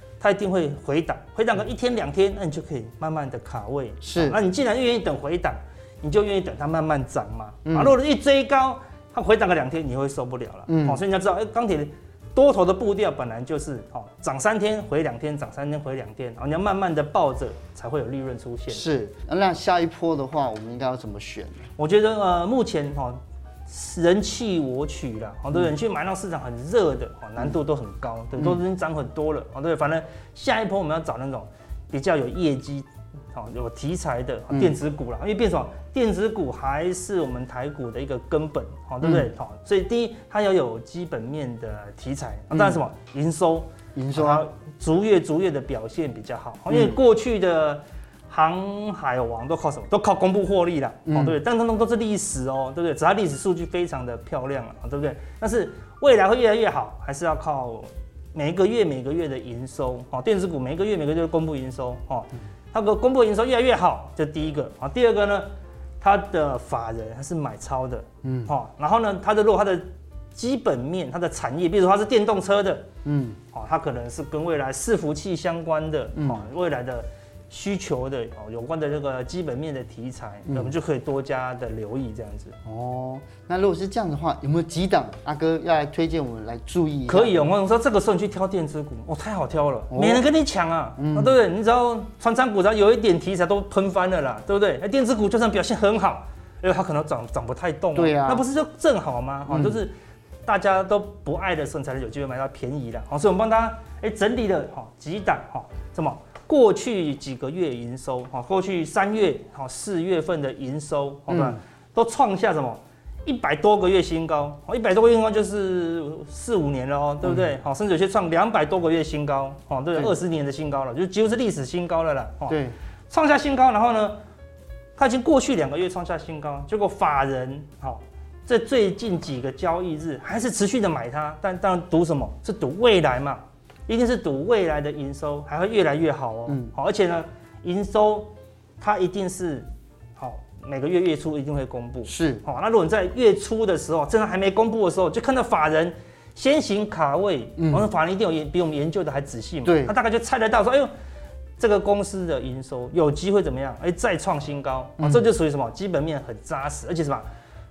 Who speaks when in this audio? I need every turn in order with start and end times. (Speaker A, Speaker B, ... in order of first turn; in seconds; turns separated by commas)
Speaker A: 0.2-18.8, Speaker B: 4.0-4.4, Speaker B: 7.7-7.9, Speaker B: 10.7-11.0, Speaker B: 18.7-21.6, Speaker A: 21.8-65.5, Speaker B: 42.5-42.8, Speaker B: 44.0-44.4, Speaker B: 46.7-47.0, Speaker B: 51.1-51.4, Speaker A: 66.0-72.9, Speaker B: 68.2-68.5, Speaker B: 73.0-73.4, Speaker A: 73.5-82.6, Speaker B: 76.2-76.5, Speaker B: 82.7-87.4, Speaker A: 87.1-99.9, Speaker B: 89.9-90.2, Speaker B: 91.0-91.3, Speaker B: 98.0-98.4, Speaker B: 99.5-99.8, Speaker A: 100.5-122.6, Speaker B: 111.3-111.6, Speaker B: 117.2-117.5, Speaker B: 122.5-122.8, Speaker A: 123.1-124.2, Speaker A: 125.0-150.9, Speaker B: 136.5-136.7, Speaker B: 142.1-142.4, Speaker B: 147.6-147.9, Speaker B: 149.7-149.9, Speaker A: 151.6-157.2, Speaker B: 155.0-155.2